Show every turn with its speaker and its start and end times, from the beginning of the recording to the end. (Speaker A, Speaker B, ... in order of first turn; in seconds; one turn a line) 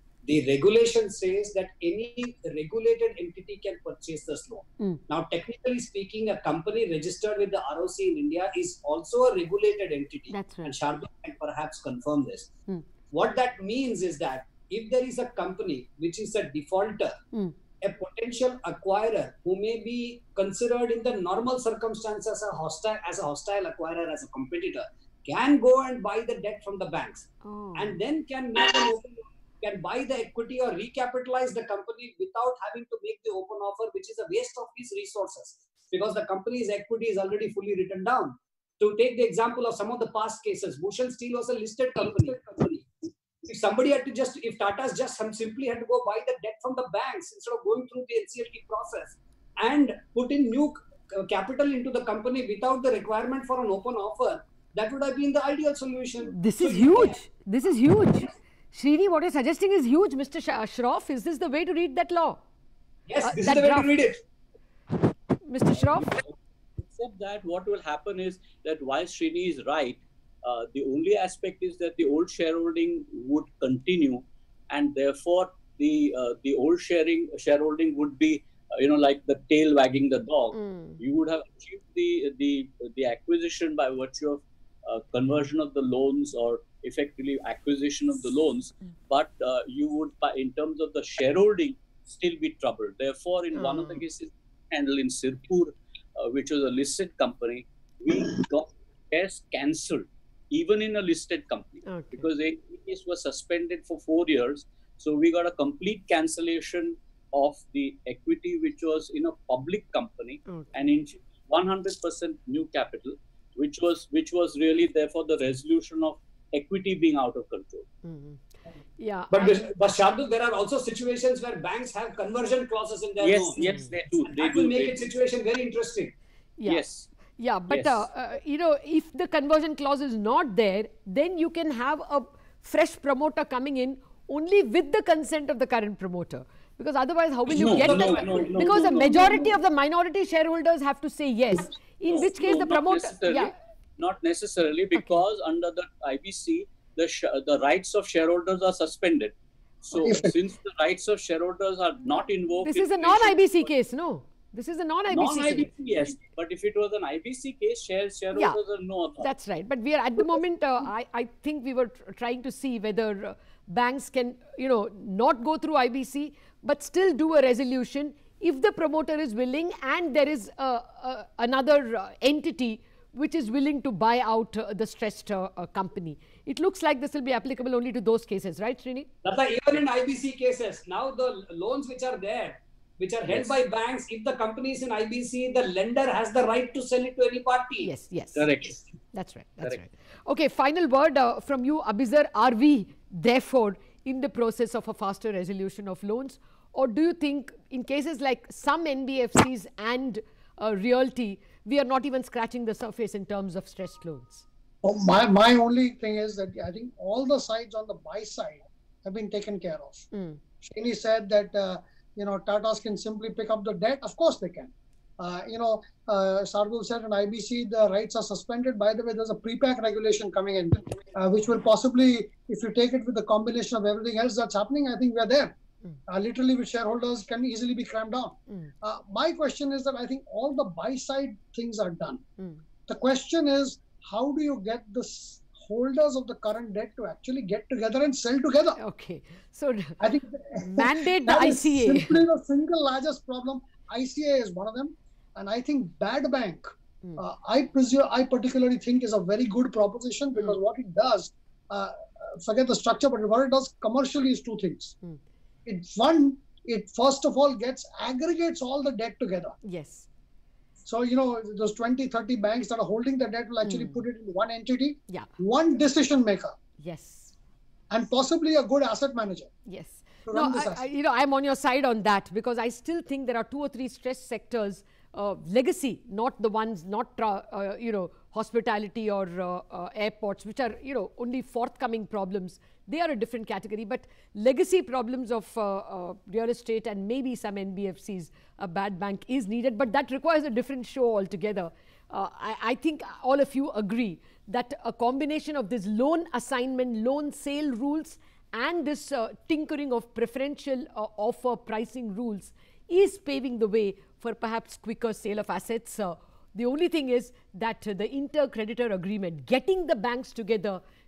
Speaker A: 0.2-12.5
Speaker B: 10.3-10.8
Speaker A: 13.1-17.2
Speaker A: 17.8-57.1
Speaker B: 27.4-27.9
Speaker B: 56.3-62.4
Speaker A: 63.1-64.2
Speaker B: 63.2-63.9
Speaker B: 65.5-66.2
Speaker C: 66.8-117.8
Speaker B: 80.5-81.0
Speaker B: 93.5-94.0
Speaker B: 101.8-102.2
Speaker B: 118.0-118.4
Speaker B: 119.0-119.6
Speaker A: 119.3-123.6
Speaker C: 123.2-125.1
Speaker B: 123.6-123.9
Speaker A: 124.2-126.1
Speaker B: 126.6-126.8
Speaker C: 126.7-127.1
Speaker B: 127.4-143.5
Speaker C: 127.7-128.1
Speaker C: 137.5-139.6
Speaker A: 137.6-138.9
Speaker C: 142.1-153.7
Speaker B: 144.9-145.2
Speaker B: 149.9-150.3
Speaker D: 150.0-150.3
Speaker B: 152.6-155.7
Speaker C: 155.1-159.3
Speaker B: 159.2-179.1
Speaker A: 179.2-187.9
Speaker C: 183.3-183.6
Speaker B: 187.8-204.4
Speaker C: 188.3-188.8
Speaker D: 204.8-210.1
Speaker B: 210.1-210.4
Speaker D: 210.6-225.5
Speaker D: 226.1-232.2
Speaker B: 232.4-232.6
Speaker D: 232.9-238.8
Speaker B: 238.8-240.0
Speaker D: 240.0-254.9
Speaker B: 240.6-242.2
Speaker D: 255.7-259.6
Speaker B: 259.6-260.1
Speaker D: 260.8-266.5
Speaker B: 263.6-264.0
Speaker B: 266.8-267.3
Speaker D: 267.9-269.5
Speaker B: 269.7-310.8
Speaker D: 270.2-270.9